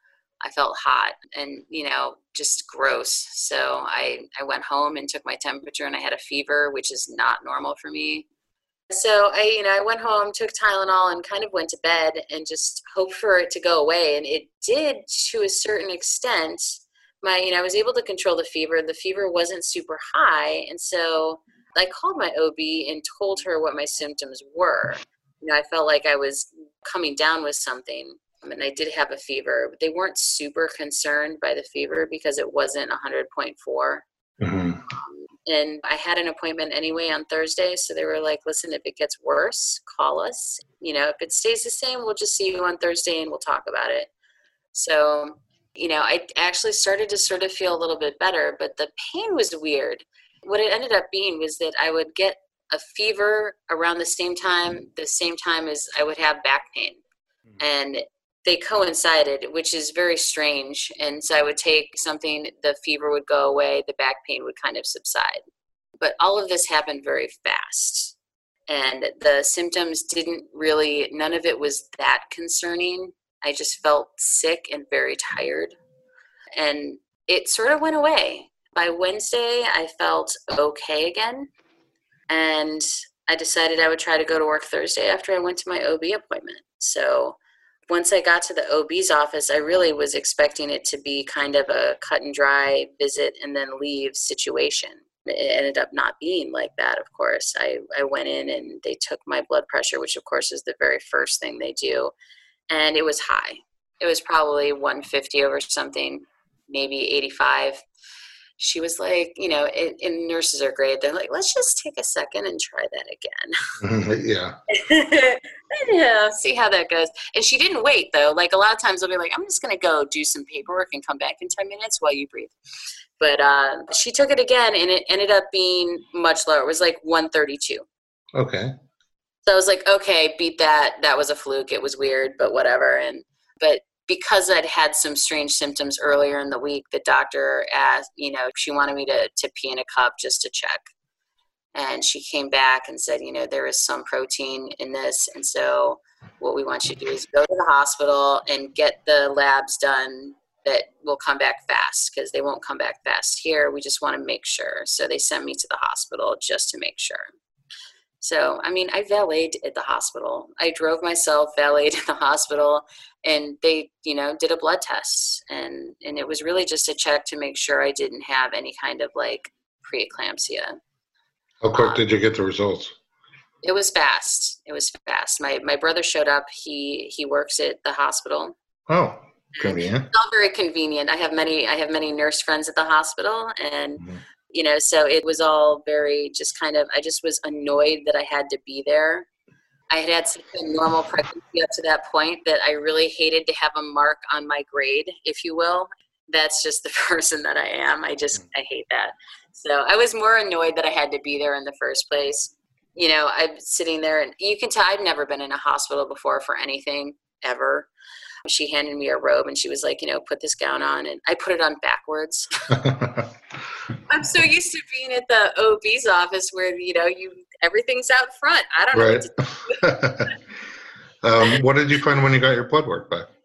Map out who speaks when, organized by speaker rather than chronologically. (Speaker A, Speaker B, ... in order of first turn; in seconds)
Speaker A: 0.4-8.3, 8.9-34.0, 34.9-44.1, 44.7-57.0, 57.6-65.4, 66.0-68.1, 68.7-75.7, 76.6-81.5, 82.3-87.4, 87.9-102.1, 102.7-107.8, 108.6-113.5, 114.7-122.5, 123.2-127.8, 129.5-140.9, 141.8-157.3, 158.2-170.8, 171.7-172.0, 173.6-178.6, 179.6-189.3, 189.9-207.9, 208.4-212.5, 214.1-219.8
Speaker B: 34.4-34.8, 113.8-114.5, 128.3-128.7, 171.6-172.9, 178.9-180.1, 219.0-219.3, 219.8-220.3, 221.2-223.3